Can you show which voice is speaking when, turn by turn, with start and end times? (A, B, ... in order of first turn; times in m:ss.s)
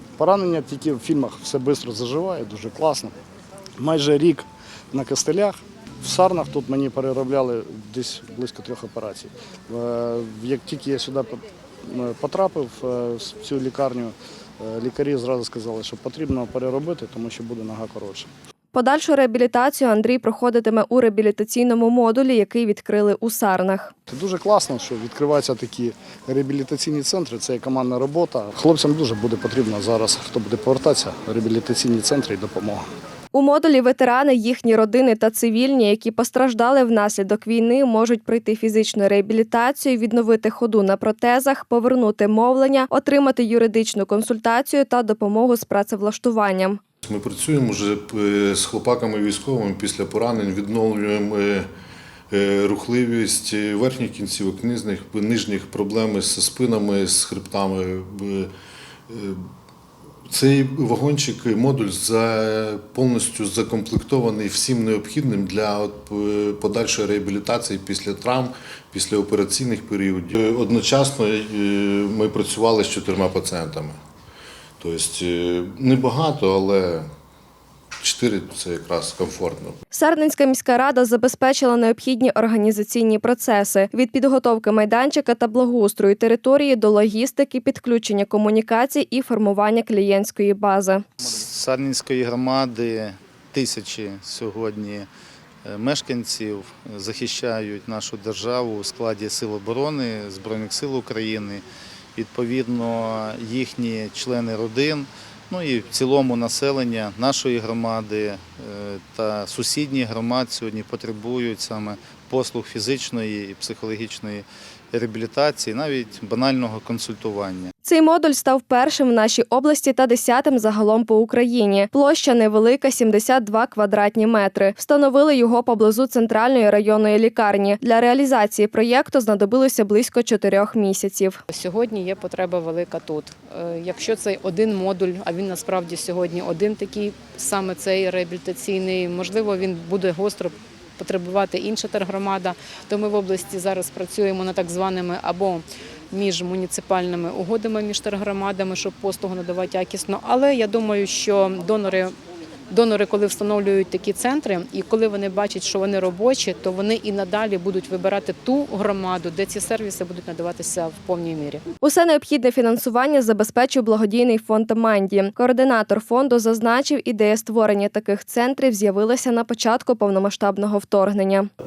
0:00.2-0:03.2 A
0:03.8-0:18.3 A
0:18.7-0:23.9 B
0:24.1-0:32.8 A
0:33.3-0:46.8 B
0:47.0-0:51.7 C
0:52.3-0:58.5 C
0:59.1-0:59.4 C
1:00.3-1:14.0 C
1:14.8-1:17.1 C
1:18.0-1:19.8 C
1:19.9-1:31.0 B
1:31.2-1:35.1 D
1:35.6-1:41.6 D
1:42.2-1:57.7 D
1:57.8-2:11.4 B
2:11.5-2:32.1 E
2:32.7-2:41.6 E
2:41.8-2:51.5 B